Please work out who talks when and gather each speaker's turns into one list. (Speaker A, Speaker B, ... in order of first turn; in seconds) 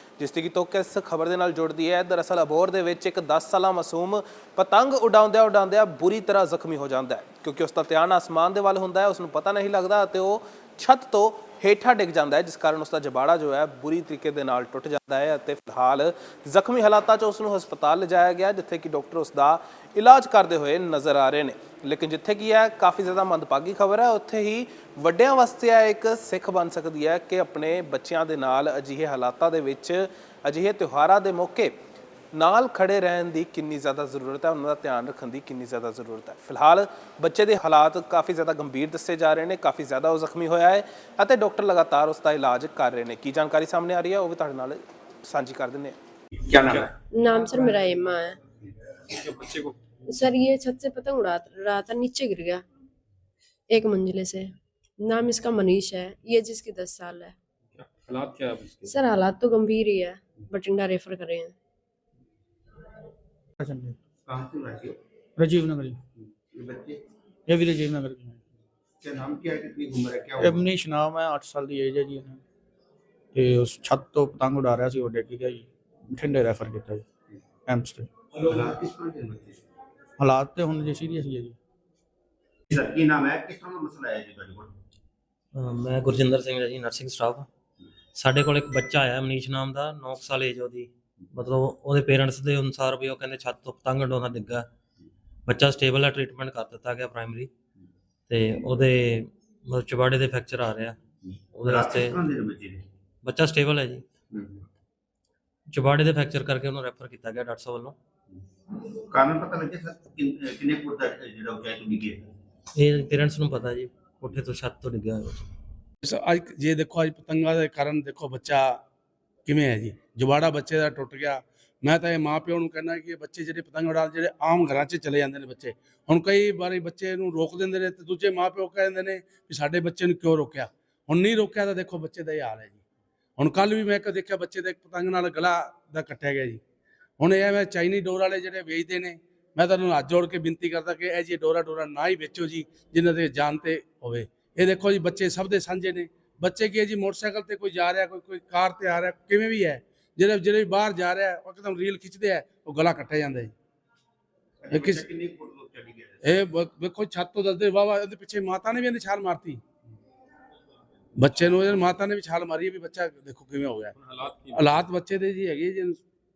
Speaker A: 0.2-31.8, 32.3-46.0
Speaker B: 46.5-46.9, 64.3-65.0, 66.5-67.0, 69.0-70.6, 78.5-79.6, 82.7-84.7, 101.7-102.8, 104.3-104.7, 108.8-112.3, 154.6-156.3
Speaker C: 47.1-48.4, 50.1-52.6, 53.7-57.4, 58.9-61.5
Speaker D: 49.2-49.8, 57.9-59.0, 164.1-164.5
Speaker E: 63.6-64.0, 65.4-66.0, 67.5-68.4, 70.4-72.4, 73.3-77.0, 77.7-78.1, 80.2-81.6
Speaker F: 85.5-87.5, 88.2-94.7, 95.5-97.5, 98.3-101.0, 101.5-102.2, 103.2-104.0, 105.7-108.0, 112.8-115.5
Speaker G: 116.0-118.8, 119.5-132.8, 133.4-136.6, 137.2-153.5, 154.7-155.1, 156.2-159.6, 161.2-163.9, 164.5-166.0